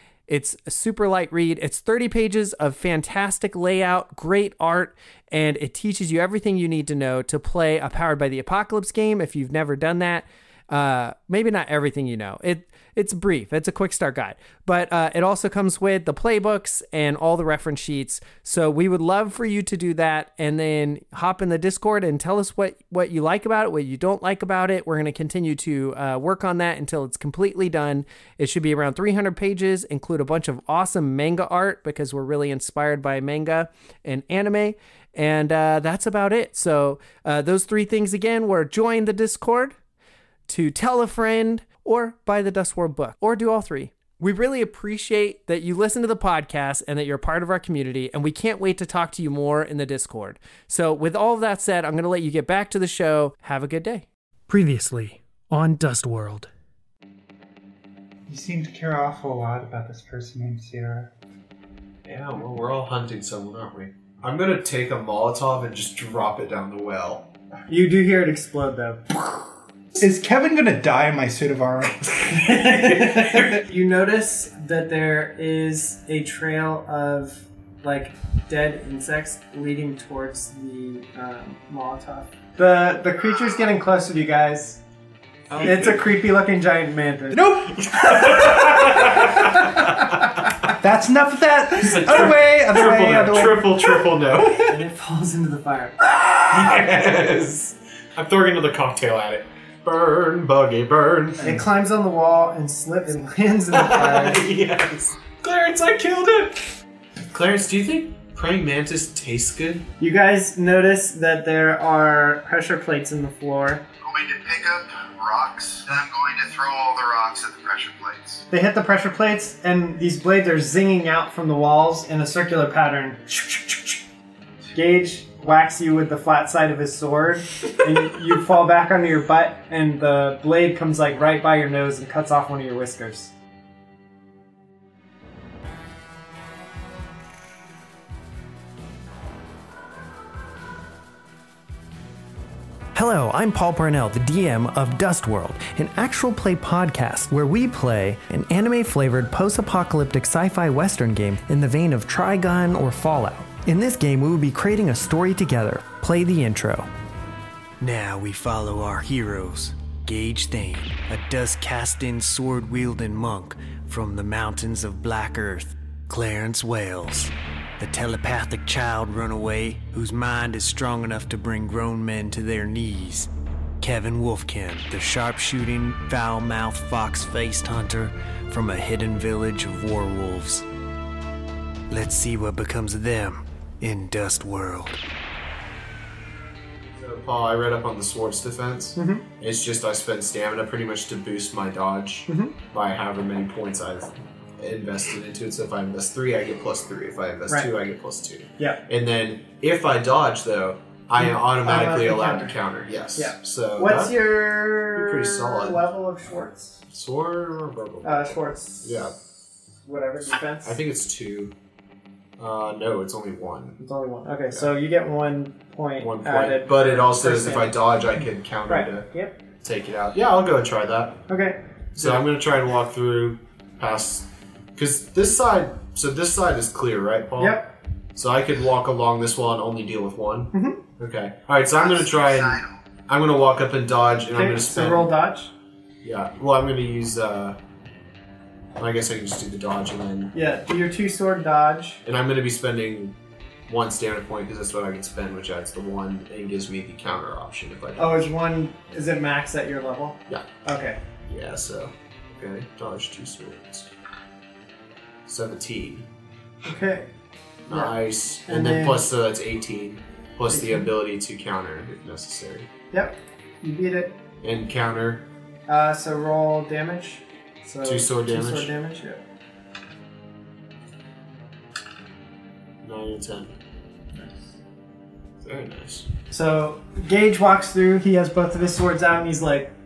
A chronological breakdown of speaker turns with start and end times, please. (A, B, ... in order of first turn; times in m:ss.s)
0:00.3-0:39.8 A
0:40.5-0:56.5 A
0:58.3-1:01.1 B
1:02.0-1:07.2 C
1:07.7-1:09.0 D
1:10.0-1:12.1 B
1:12.2-1:13.6 C
1:12.3-1:24.8 D
1:25.5-1:26.1 C
1:25.6-1:27.5 D
1:27.3-1:28.4 B
1:27.7-1:30.7 C
1:30.8-1:33.9 B
1:31.8-1:34.8 C
1:34.5-1:36.9 D
1:36.4-1:41.4 C
1:41.4-1:41.6 B
1:41.4-1:44.5 D
1:43.7-1:46.7 C
1:47.3-1:49.8 C
1:50.0-1:53.8 D
1:54.0-1:58.4 E
1:58.5-2:04.0 D
2:04.7-2:13.3 D
2:22.9-2:36.9 A
2:37.8-3:00.6 F
3:01.9-3:05.0 F
3:07.0-3:24.1 C
3:09.0-3:09.2 D
3:12.3-3:12.5 D
3:21.2-3:22.6 D
3:23.1-3:26.8 D
3:24.9-3:25.8 C
3:26.9-3:29.1 C
3:28.0-3:29.1 D
3:29.8-3:30.8 D
3:30.6-3:31.5 C
3:32.4-3:33.8 C
3:33.8-3:37.8 D
3:36.0-3:39.1 C
3:38.7-3:39.4 D
3:39.6-3:41.2 C
3:41.3-3:42.2 D
3:41.9-3:47.6 C
3:47.4-3:47.7 D
3:48.1-3:55.1 C
3:50.5-3:50.8 D
3:51.7-3:52.8 E
3:54.3-3:55.5 D
3:56.0-3:57.6 C
3:58.8-4:00.3 C
4:00.3-4:02.0 D
4:02.0-4:03.1 C
4:03.7-4:08.3 C
4:08.0-4:11.0 D
4:11.2-4:13.9 C
4:15.2-4:16.0 C
4:16.6-4:17.1 D
4:17.7-4:22.7 C
4:17.7-4:17.9 D
4:18.5-4:19.1 D
4:20.5-4:20.9 D
4:22.9-4:24.2 D
4:24.4-4:25.2 C
4:25.7-4:29.2 D
4:27.8-4:28.7 C
4:32.8-4:33.5 C
4:34.2-4:34.4 D
4:35.4-4:36.1 C
4:36.3-4:39.7 D